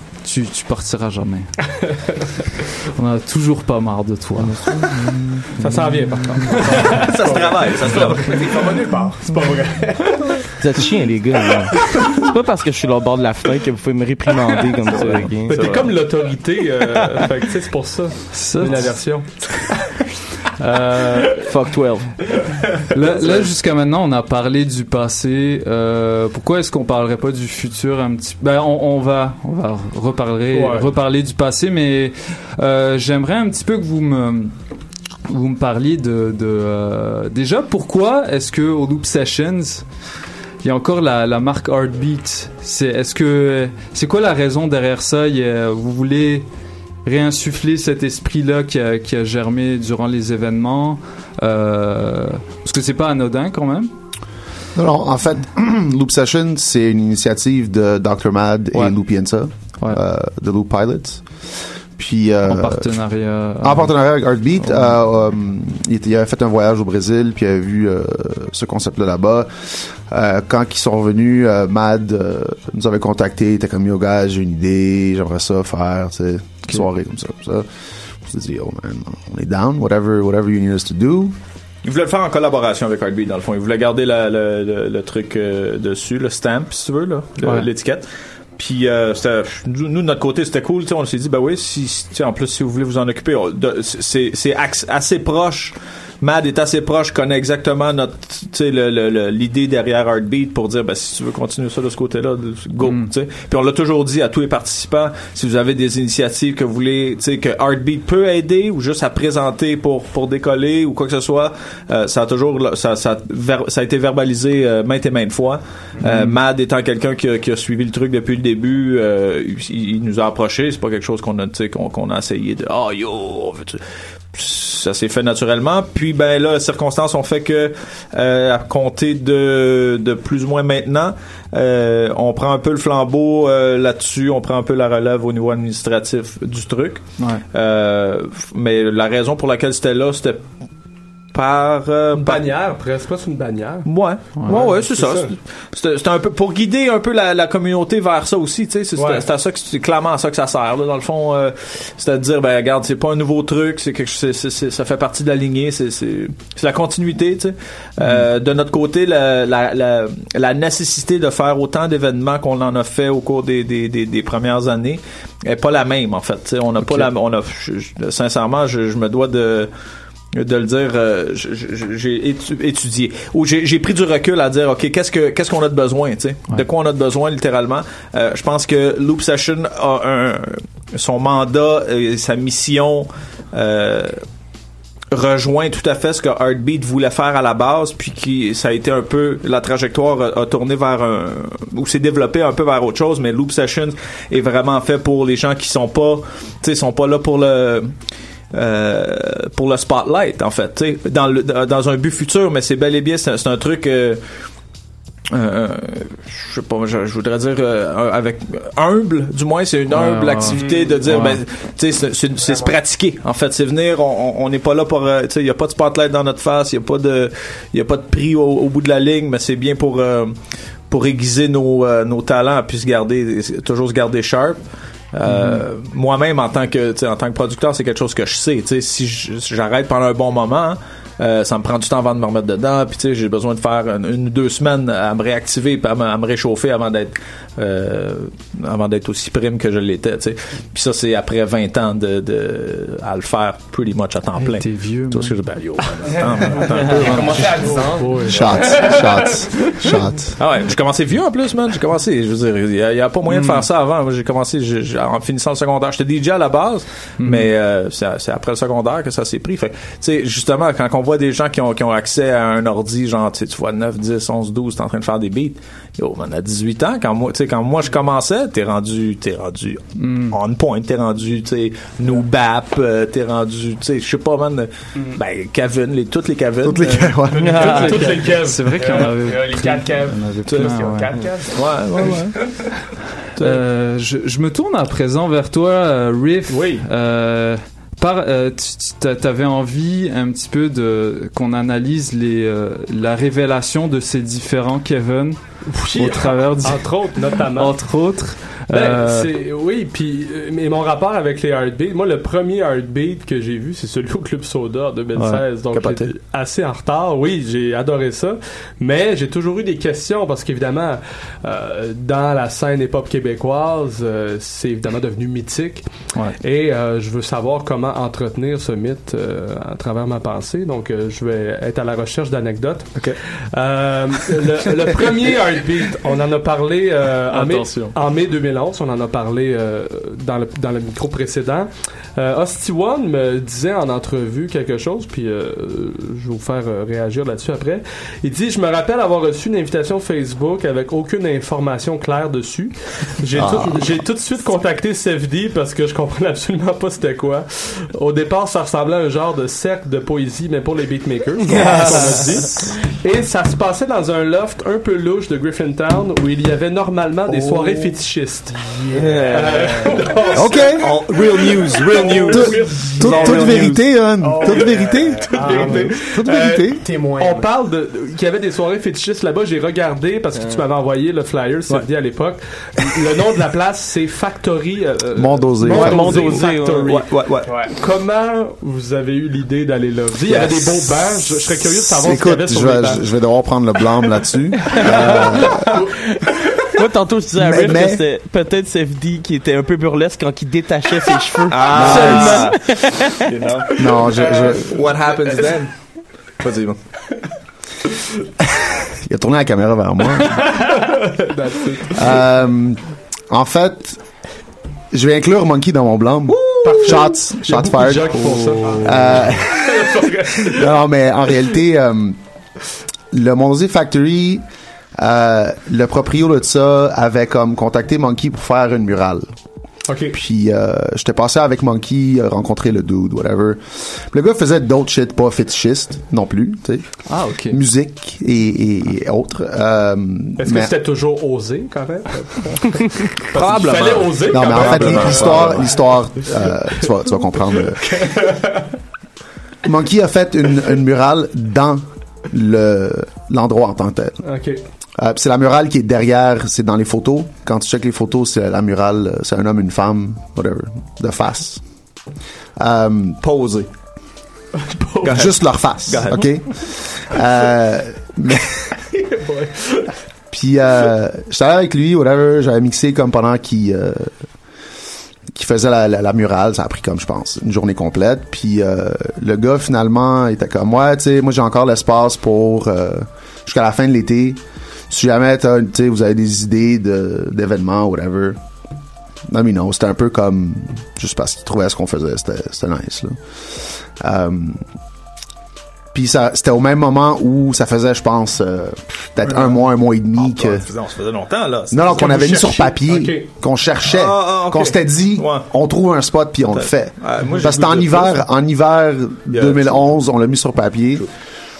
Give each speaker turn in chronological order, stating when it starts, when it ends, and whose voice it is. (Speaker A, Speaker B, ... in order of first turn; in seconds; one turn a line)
Speaker A: 0.2-1.5
Speaker A: 3.0-6.0
Speaker B: 5.6-9.6
Speaker C: 6.4-8.4
Speaker D: 8.1-10.0
Speaker E: 10.6-15.9
Speaker B: 14.8-19.3
Speaker A: 18.3-18.9
Speaker B: 20.6-21.5
Speaker E: 21.2-22.1
Speaker A: 22.9-34.5
Speaker B: 23.2-23.5
Speaker B: 30.5-30.9
Speaker A: 35.3-39.8
Speaker A: 40.6-46.4
Speaker A: 47.0-53.9
Speaker F: 54.8-62.9
Speaker A: 62.4-63.9
Speaker F: 63.6-77.7
Speaker A: 64.7-64.9
Speaker F: 78.2-81.3
Speaker C: 81.8-88.0
Speaker A: 87.4-87.7
Speaker C: 88.6-123.8
Speaker A: 102.8-103.1
Speaker A: 116.0-116.4
Speaker C: 124.3-140.4
Speaker A: 137.2-137.4
Speaker C: 141.3-142.4
Speaker B: 142.1-143.9
Speaker C: 143.8-169.7
Speaker A: 144.4-144.6
Speaker B: 144.5-145.3
Speaker B: 148.9-149.2
Speaker A: 166.8-167.1
Speaker C: 170.3-184.2
Speaker C: 185.1-197.9
Speaker C: 198.5-204.2
Speaker C: 205.3-220.3
Speaker A: 209.9-211.4
Speaker D: 210.5-211.0
Speaker D: 212.4-212.7
Speaker C: 220.9-224.6
Speaker C: 225.1-247.7
Speaker A: 225.2-225.6
Speaker A: 244.4-245.3
Speaker D: 246.9-249.3
Speaker A: 247.0-248.2
Speaker B: 247.2-250.0
Speaker F: 248.3-250.3
Speaker C: 250.4-276.9
Speaker A: 253.3-253.6
Speaker A: 257.2-257.5
Speaker A: 270.0-270.4
Speaker F: 276.6-277.5
Speaker E: 277.3-277.9
Speaker B: 277.4-279.1
Speaker A: 277.6-281.2
Speaker D: 278.7-282.2
Speaker C: 281.5-282.4
Speaker A: 283.4-295.4
Speaker B: 286.5-286.8
Speaker B: 295.7-297.8
Speaker A: 295.9-296.9
Speaker A: 297.5-299.3
Speaker B: 298.7-315.9
Speaker A: 305.1-305.4
Speaker C: 305.7-306.1
Speaker B: 316.4-358.6
Speaker A: 327.3-327.9
Speaker F: 343.4-343.8
Speaker E: 351.4-352.4
Speaker D: 357.3-358.0
Speaker D: 358.8-360.4
Speaker E: 358.9-359.9
Speaker B: 359.2-363.6
Speaker F: 360.4-360.9
Speaker C: 360.8-362.5
Speaker F: 362.3-366.8
Speaker E: 363.0-363.8
Speaker C: 363.3-363.7
Speaker D: 364.2-366.0
Speaker B: 364.4-364.7
Speaker B: 365.3-377.1
Speaker D: 366.7-367.5
Speaker E: 370.3-370.6
Speaker F: 375.1-376.3
Speaker E: 375.6-377.1
Speaker C: 376.8-377.5
Speaker D: 377.4-377.7
Speaker B: 377.7-383.0
Speaker F: 381.3-385.7
Speaker E: 384.7-385.1
Speaker E: 386.8-393.1
Speaker F: 387.4-388.0
Speaker C: 391.5-393.7
Speaker F: 391.7-392.4
Speaker B: 391.9-392.3
Speaker F: 393.8-394.7
Speaker C: 394.7-395.7
Speaker C: 396.4-396.8
Speaker F: 399.1-400.4
Speaker B: 400.3-401.0
Speaker D: 401.3-402.1
Speaker F: 401.9-404.0
Speaker F: 404.9-408.2
Speaker B: 406.4-410.8
Speaker D: 406.6-407.3
Speaker D: 407.9-409.6
Speaker F: 408.9-409.5
Speaker F: 410.5-412.2
Speaker F: 413.1-414.4
Speaker F: 415.0-419.3
Speaker B: 419.9-420.2
Speaker F: 420.1-430.7
Speaker A: 427.1-427.6
Speaker B: 430.4-436.3
Speaker F: 434.2-437.8
Speaker B: 437.4-438.3
Speaker F: 439.6-444.2
Speaker B: 444.2-444.6
Speaker F: 445.0-451.6
Speaker F: 452.6-453.2
Speaker C: 453.2-453.7
Speaker B: 454.7-455.2
Speaker C: 455.0-456.3
Speaker F: 455.1-458.4
Speaker B: 459.2-459.8
Speaker F: 460.3-464.1
Speaker F: 465.3-474.4
Speaker F: 474.9-478.4
Speaker F: 479.3-484.6
Speaker F: 485.9-490.6
Speaker C: 490.1-492.4
Speaker F: 491.7-501.1
Speaker B: 491.9-493.3
Speaker C: 493.9-495.5
Speaker C: 496.5-498.2
Speaker C: 499.3-500.0